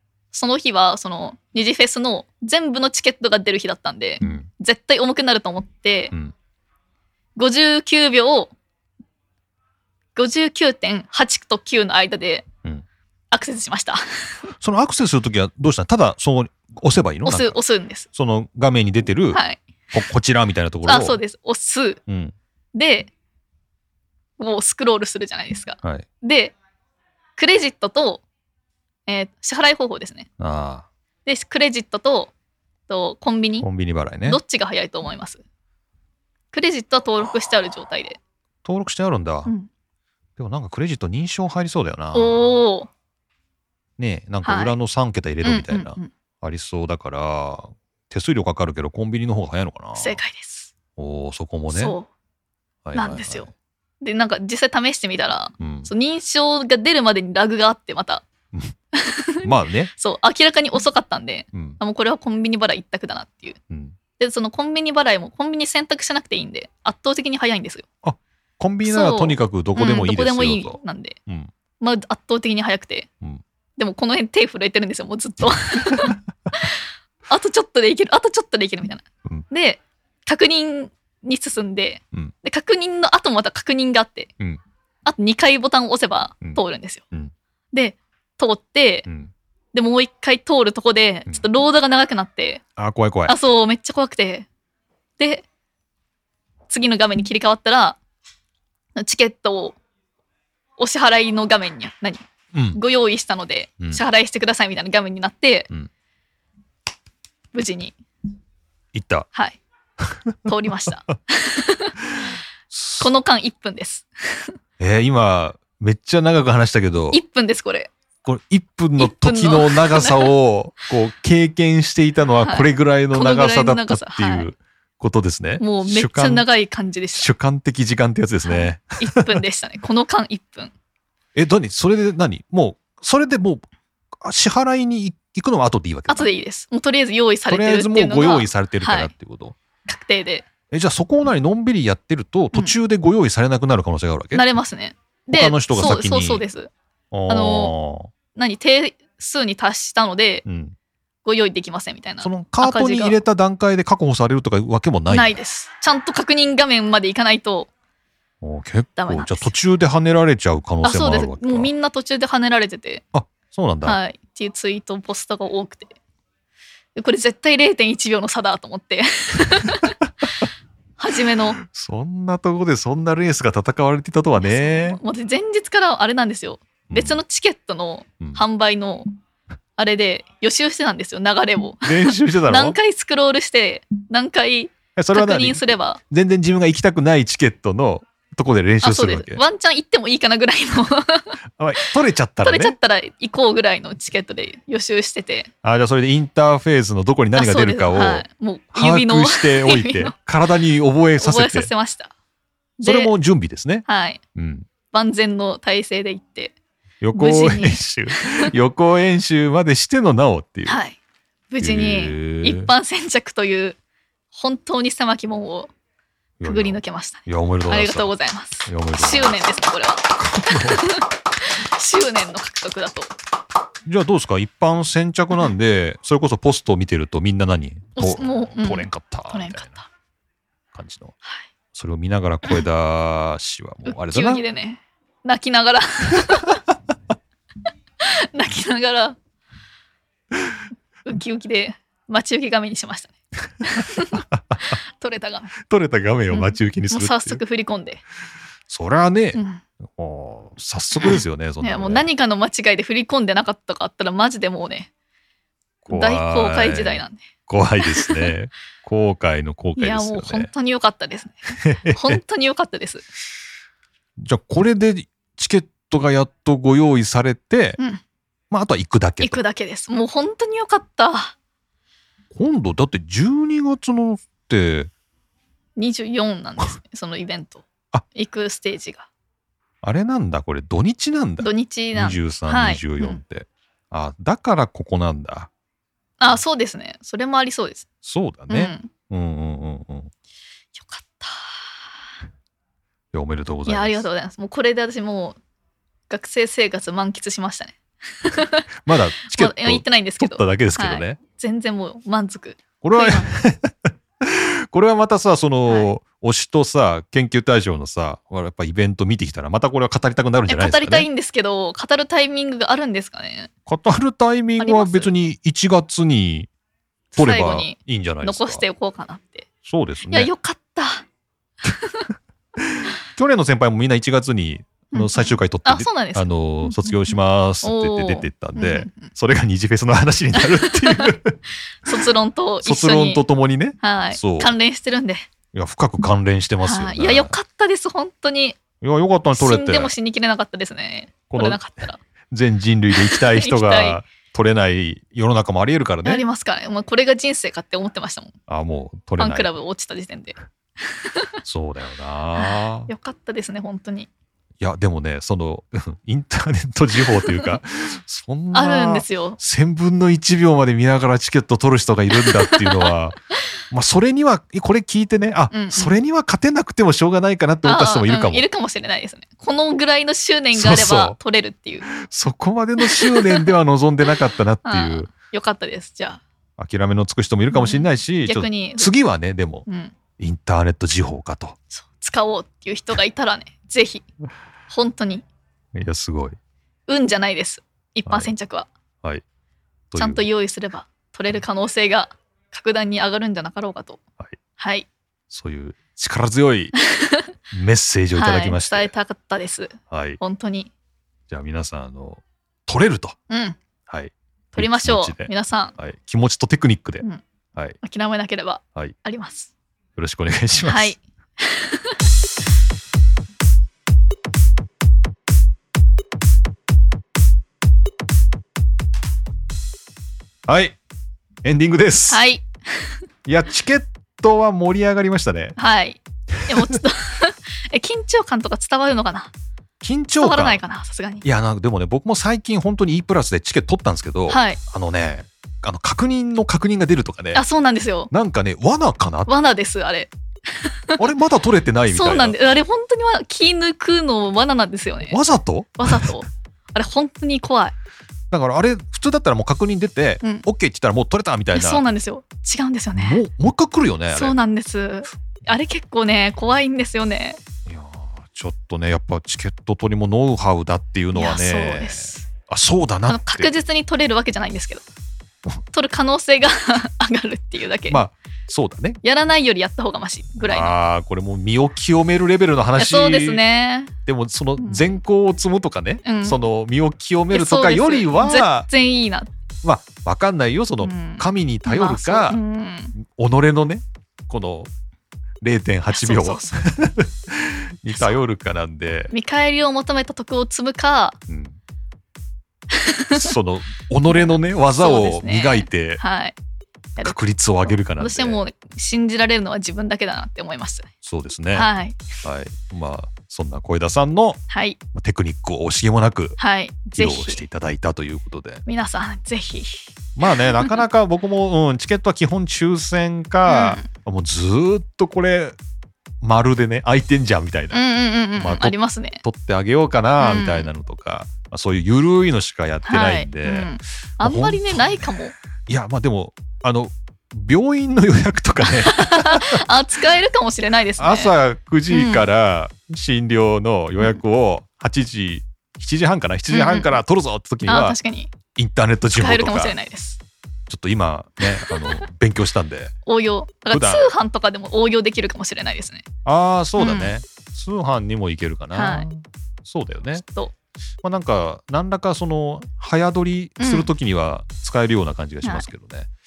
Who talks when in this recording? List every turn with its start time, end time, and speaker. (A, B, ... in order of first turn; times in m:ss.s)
0:00.3-0:06.1 A
0:04.2-0:04.5 B
0:07.4-0:08.5 A
0:10.2-0:12.4 A
0:13.3-0:14.5 A
0:14.6-0:17.6 B
0:17.2-0:18.1 A
0:18.1-0:19.4 B
0:19.3-0:19.6 A
0:19.9-0:21.2 B
0:20.8-0:22.0 A
0:22.1-0:22.3 B
0:22.7-0:23.1 A
0:24.4-0:26.5 A
0:27.4-0:28.2 A
0:29.1-0:30.3 A
0:30.4-0:30.9 B
0:31.2-0:32.3 A
0:32.9-0:33.6 A
0:33.6-0:34.4 B
0:34.2-0:35.4 A
0:36.5-0:38.2 A
0:38.6-0:39.5 B
0:40.4-0:42.4 B
0:42.1-0:42.9 A
0:44.0-0:50.2 B
0:44.4-0:44.8 A
0:45.4-0:46.1 A
0:50.0-0:50.7 A
0:51.0-0:52.0 B
0:51.7-0:52.1 A
0:52.8-0:53.5 B
0:52.9-0:53.5 A
0:54.0-0:58.2 A
0:55.6-0:55.9 B
0:58.9-1:03.6 A
0:59.4-0:59.9 B
1:01.5-1:01.8 B
1:03.7-1:03.9 B
1:04.2-1:07.8 A
1:08.0-1:11.5 B
1:08.8-1:11.2 A
1:11.8-1:13.1 A
1:13.8-1:24.3 A
1:15.9-1:16.2 B
1:25.0-1:27.0 A
1:27.7-1:29.0 A
1:29.0-1:29.3 B
1:29.7-1:32.6 A
1:32.8-1:33.3 B
1:33.3-1:34.5 A
1:35.2-1:35.4 A
1:36.7-1:38.0 A
1:39.0-1:39.8 A
1:40.8-1:45.7 A
1:42.5-1:42.8 B
1:47.5-1:47.9 A
1:48.9-1:49.3 B
1:49.3-1:49.6 A
1:50.1-1:50.4 B
1:50.4-1:51.9 A
1:52.7-1:53.1 B
1:53.0-1:54.6 A
1:54.8-1:57.2 B
1:57.1-1:57.9 A
1:58.2-2:06.5 B
1:59.0-2:00.3 A
2:02.4-2:04.5 A
2:05.6-2:07.3 A
2:07.1-2:09.4 B
2:08.4-2:10.7 A
2:11.3-2:13.6 B
2:14.2-2:16.3 B
2:16.1-2:19.1 A
2:17.5-2:19.6 B
2:19.8-2:20.4 A
2:20.7-2:24.4 B
2:24.3-2:26.7 A
2:25.3-2:26.4 B
2:27.1-2:28.1 B
2:27.3-2:27.7 A
2:28.3-2:30.4 A
2:30.4-2:30.7 B
2:31.2-2:33.2 A
2:32.2-2:35.4 B
2:35.1-2:37.7 A
2:38.4-2:41.7 B
2:39.0-2:39.5 A
2:40.8-2:43.0 A
2:43.1-2:44.0 B
2:43.8-2:46.0 A
2:47.0-2:49.9 A
2:51.0-2:51.6 A
2:51.6-2:55.0 B
2:54.4-2:59.1 A
2:56.9-2:57.2 B
2:59.8-3:06.0 A
3:01.8-3:02.8 B
3:05.0-3:09.4 B
3:08.8-3:11.4 A
3:11.6-3:12.7 B
3:12.4-3:15.5 A
3:15.6-3:21.7 B
3:17.3-3:20.1 A
3:21.2-3:22.1 A
3:22.8-3:23.1 A
3:22.8-3:24.7 B
3:23.8-3:24.2 A
3:24.9-3:26.5 A
3:27.0-3:30.8 B
3:27.2-3:28.5 A
3:30.6-3:31.0 A
3:31.5-3:33.8 A
3:31.6-3:32.7 B
3:34.3-3:35.7 A
3:36.4-3:38.1 B
3:36.4-3:43.1 A
3:38.6-3:39.3 B
3:40.2-3:40.8 B
3:43.8-3:49.8 B
3:48.0-3:49.9 A
3:50.7-3:51.1 B
3:51.7-3:54.4 B
3:53.8-3:56.6 A
3:58.0-3:59.2 A
4:01.0-4:05.5 A
4:04.1-4:04.6 B
4:05.6-4:07.4 B
4:06.3-4:08.0 A
4:08.7-4:12.0 B
4:09.3-4:09.6 A
4:11.0-4:14.9 A
4:15.8-4:20.5 B
4:15.9-4:17.3 A
4:17.8-4:18.3 A
4:19.8-4:23.0 A
4:21.5-4:22.2 B
4:24.2-4:27.8 B
4:28.5-4:29.4 B
4:29.2-4:31.3 A
4:32.3-4:34.9 B
4:35.8-4:39.1 A
4:39.8-4:45.5 B
4:41.4-4:43.2 A
4:46.2-4:47.9 A
4:48.0-4:50.1 B
4:48.5-4:48.9 A
4:50.7-4:51.7 A
4:53.1-4:54.0 B
4:53.6-4:55.4 A
4:56.1-4:58.7 A
4:58.8-5:01.2 B
4:59.2-5:03.3 A
5:02.8-5:11.1 B
5:10.5-5:13.5 A
5:13.6-5:16.5 B
5:14.6-5:15.1 A
5:17.1-5:19.5 A
5:17.1-5:18.6 B
5:19.6-5:20.3 B
5:20.1-5:21.0 A
5:21.6-5:22.1 A
5:22.7-5:31.4 B
5:24.9-5:29.1 A
5:30.3-5:31.1 A
5:31.8-5:33.2 A
5:32.6-5:34.5 B
5:33.8-5:35.3 A
5:35.5-5:37.3 B
5:36.6-5:38.6 A
5:38.8-5:39.9 B
5:39.3-5:42.0 A
5:41.3-5:41.6 B
5:42.3-5:46.2 B
5:42.9-5:44.0 A
5:46.0-5:48.3 A
5:48.5-5:49.5 B
5:49.2-5:51.4 A
5:51.4-5:52.9 B
5:52.3-5:54.1 A
5:54.6-6:03.2 B
5:57.2-5:57.6 A
5:58.5-5:59.4 A
6:02.2-6:02.9 A
6:03.7-6:08.4 B
6:05.5-6:05.9 A
6:07.6-6:11.8 A
6:10.5-6:11.2 B
6:11.9-6:15.1 B
6:12.8-6:13.5 A
6:14.6-6:16.2 A
6:16.6-6:19.6 B
6:17.5-6:18.9 A
6:19.7-6:19.9 A
6:20.2-6:21.6 B
6:21.7-6:24.0 A
6:24.7-6:25.2 A
6:25.7-6:26.4 B
6:26.9-6:28.7 A
6:28.0-6:28.3 B
6:29.9-6:30.3 B
6:30.0-6:34.0 A
6:34.6-6:34.9 A
6:35.3-6:36.7 B
6:36.9-6:37.3 A
6:37.5-6:38.9 B
6:38.1-6:40.7 A
6:39.9-6:40.2 B
6:41.3-6:43.2 B
6:43.3-6:43.6 A
6:43.9-6:47.8 B
6:44.5-6:45.7 A
6:47.8-6:49.5 A
6:50.0-6:50.9 B
6:50.6-6:52.0 A
7:00.5-7:00.8 B
7:01.4-7:02.2 B
7:02.1-7:03.0 A
7:03.2-7:05.6 B
7:05.6-7:09.3 A
7:09.8-7:10.6 B
7:10.2-7:11.2 A
7:11.2-7:17.4 B
7:14.3-7:14.6 A
7:17.3-7:18.1 A
7:18.1-7:19.3 B
7:19.3-7:21.0 A
7:21.0-7:22.4 B
7:21.9-7:25.2 A
7:25.0-7:26.2 B
7:25.8-7:27.7 A
7:28.3-7:31.8 B
7:31.5-7:33.2 A
7:33.0-7:34.3 B
7:34.1-7:37.4 A
7:37.7-7:43.6 B
7:41.1-7:42.2 A
7:43.1-7:44.8 A
7:45.7-7:48.0 A
7:47.9-7:49.0 B
7:49.0-7:50.7 A
7:50.4-7:53.4 B
7:52.8-7:53.9 A
7:54.0-7:58.7 B
7:54.6-7:55.0 A
7:56.0-7:56.4 A
7:57.3-7:59.3 A
7:59.6-8:02.4 B
8:00.8-8:02.9 A
8:02.9-8:04.7 B
8:05.4-8:09.1 B
8:05.9-8:06.5 A
8:09.1-8:11.2 A
8:11.3-8:11.6 B
8:12.7-8:13.3 A
8:13.1-8:16.0 B
8:14.1-8:16.4 A
8:17.0-8:20.9 A
8:17.0-8:18.4 B
8:21.0-8:21.7 B
8:21.5-8:22.0 A
8:22.2-8:24.4 B
8:24.5-8:24.8 A
8:24.9-8:26.4 B
8:26.4-8:27.4 A
8:26.9-8:28.6 B
8:28.6-8:29.8 A
8:30.2-8:35.5 B
8:30.3-8:30.8 A
8:33.4-8:33.8 A
8:36.2-8:37.8 B
8:37.7-8:39.2 A
8:38.4-8:45.1 B
8:40.2-8:40.7 A
8:42.8-8:45.3 A
8:45.7-8:49.6 B
8:48.7-8:51.3 A
8:51.0-8:58.0 B
8:51.9-8:52.3 A
8:56.5-8:56.9 A
8:57.6-8:58.3 A
8:58.5-8:59.8 B
8:59.2-9:00.2 A
9:00.7-9:02.9 B
9:01.4-9:02.0 A
9:03.0-9:06.0 A
9:03.7-9:04.1 B
9:06.2-9:10.2 B
9:06.8-9:07.1 A
9:08.7-9:09.1 A
9:10.2-9:10.5 A
9:11.0-9:16.1 B
9:13.6-9:13.9 A